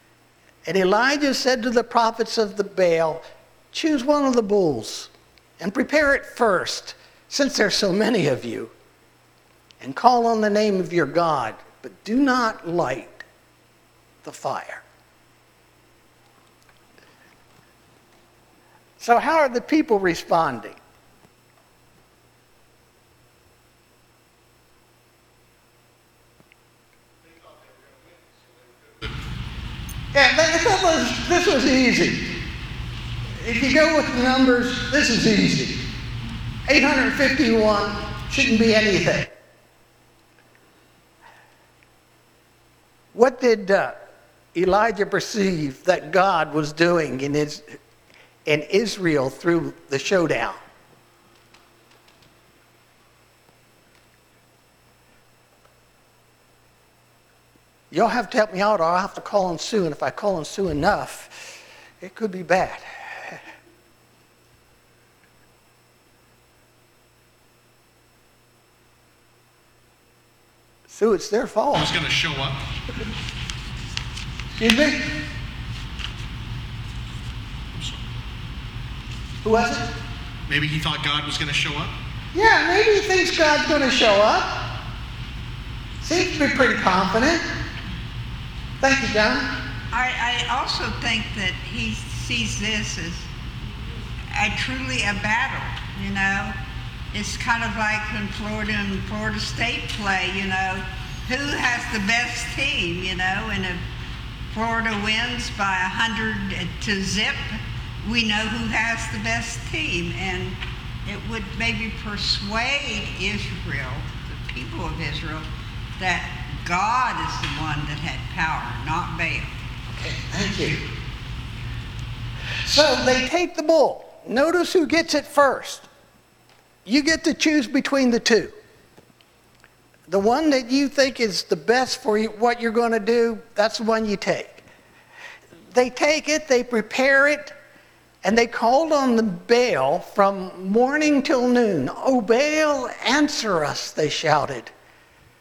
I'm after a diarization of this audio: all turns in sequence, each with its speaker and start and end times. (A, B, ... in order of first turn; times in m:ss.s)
0:00.6-0:08.7 A
0:09.8-0:13.2 A
0:14.2-0:14.8 A
0:19.0-0:20.8 A
0:30.1-0:32.4 A
0:33.4-0:35.8 A
0:36.7-0:39.3 A
0:43.1-0:44.0 A
0:44.5-0:47.7 A
0:48.5-0:50.6 A
0:57.9-1:03.4 A
1:10.9-1:11.9 A
1:11.7-1:12.6 B
1:14.5-1:15.1 A
1:19.4-1:19.9 A
1:20.5-1:21.9 B
1:22.3-1:24.7 A
1:26.0-1:27.4 A
1:28.8-1:29.6 A
1:29.9-1:33.3 C
1:34.3-1:36.6 C
1:37.1-1:43.8 C
1:44.5-1:55.4 C
1:56.0-1:59.5 C
1:59.9-2:00.8 A
2:02.6-2:05.9 A
2:06.8-2:08.5 A
2:10.1-2:14.6 A
2:15.7-2:17.5 A
2:18.2-2:24.7 A